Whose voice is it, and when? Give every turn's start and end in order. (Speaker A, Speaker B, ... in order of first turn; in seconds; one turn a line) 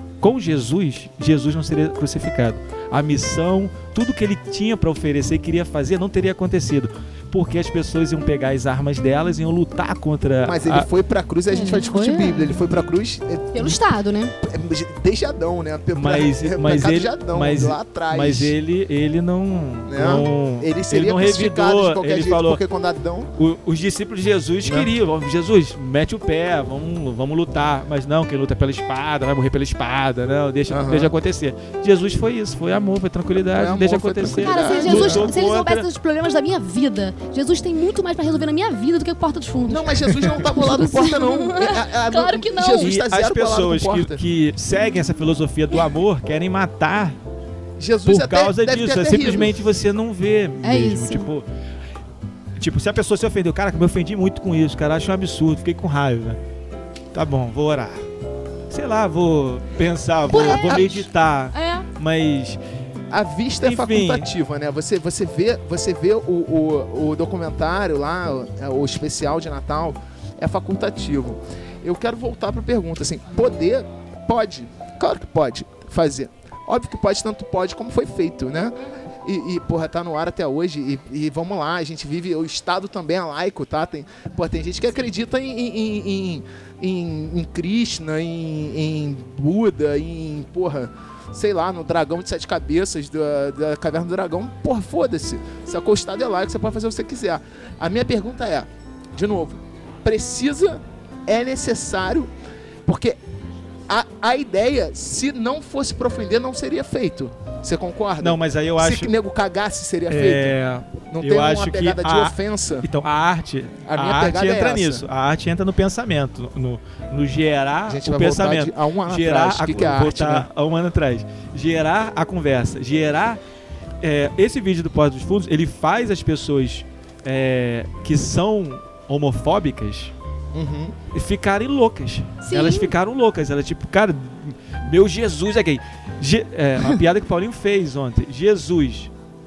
Speaker A: 0.2-10.9
Speaker B: 10.4-13.8
Speaker C: 11.5-12.5
Speaker C: 13.5-14.3
Speaker B: 14.4-18.5
Speaker A: 15.9-22.6
Speaker B: 19.9-23.3
Speaker A: 23.4-35.9
Speaker B: 24.6-24.9
Speaker B: 30.7-31.1
Speaker B: 33.5-35.3
Speaker C: 34.3-42.9
Speaker B: 39.7-44.2
Speaker A: 42.8-47.1
Speaker B: 47.8-49.6
Speaker A: 48.0-51.4
Speaker C: 50.6-51.3
Speaker A: 52.6-56.4
Speaker A: 57.1-58.0
Speaker A: 58.7-62.6
Speaker C: 60.3-61.9
Speaker B: 63.1-102.3
Speaker A: 63.6-64.3
Speaker B: 102.8-103.2
Speaker B: 103.9-110.6
Speaker A: 108.2-109.1
Speaker A: 110.1-123.4
Speaker B: 111.1-112.9
Speaker B: 113.9-115.0
Speaker B: 117.9-120.5
Speaker A: 124.0-130.1
Speaker B: 130.5-130.9
Speaker A: 131.1-139.1
Speaker C: 132.4-132.9